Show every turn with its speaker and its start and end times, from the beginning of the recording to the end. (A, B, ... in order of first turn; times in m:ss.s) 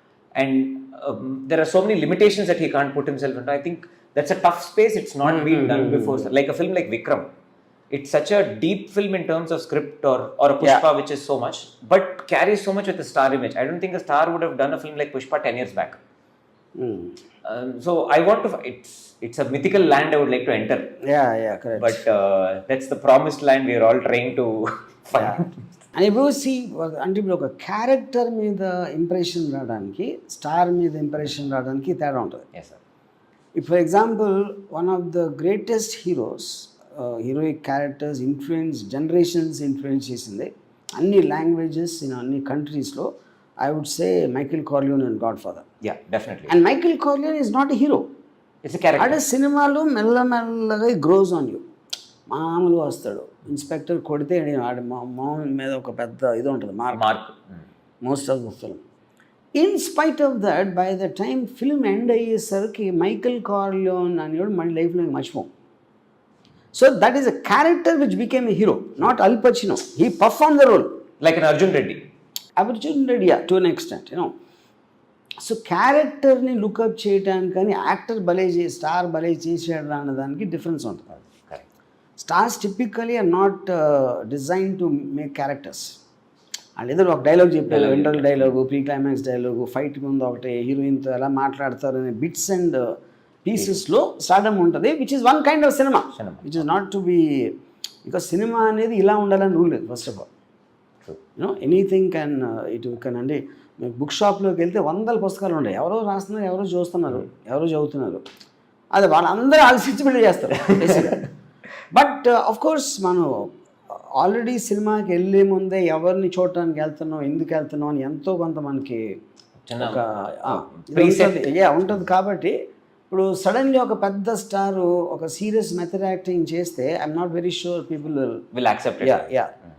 0:00.4-0:07.3 A
0:05.2-0:06.3 B
0:07.9-0:16.0 A
0:16.8-0:17.2 B
0:17.4-0:21.0 A
0:21.0-0:22.0 B
0:21.8-0:25.6 A
0:25.2-0:32.4 B
0:32.5-0:32.8 A
0:33.6-0:43.1 B
0:43.6-0:45.7 B
0:45.8-0:46.6 A
0:46.5-0:48.1 B
0:48.6-0:49.2 A
0:49.0-0:51.6 B
0:52.3-0:57.0 B
0:56.9-0:57.4 A
0:58.0-0:58.8 B
0:59.6-1:05.5 B
1:06.7-1:11.0 B
1:11.2-1:12.1 A
1:12.6-1:14.3 B
1:15.4-1:21.3 B
1:22.2-1:26.0 B
1:26.8-1:40.3 B
1:27.7-1:28.5 A
1:36.2-1:36.5 A
1:41.4-1:48.2 B
1:48.9-1:51.3 B
1:51.9-1:59.2 B
1:59.7-2:01.5 A
1:59.8-2:02.6 B
2:03.1-2:08.5 B
2:08.5-2:09.3 A
2:09.0-2:09.5 B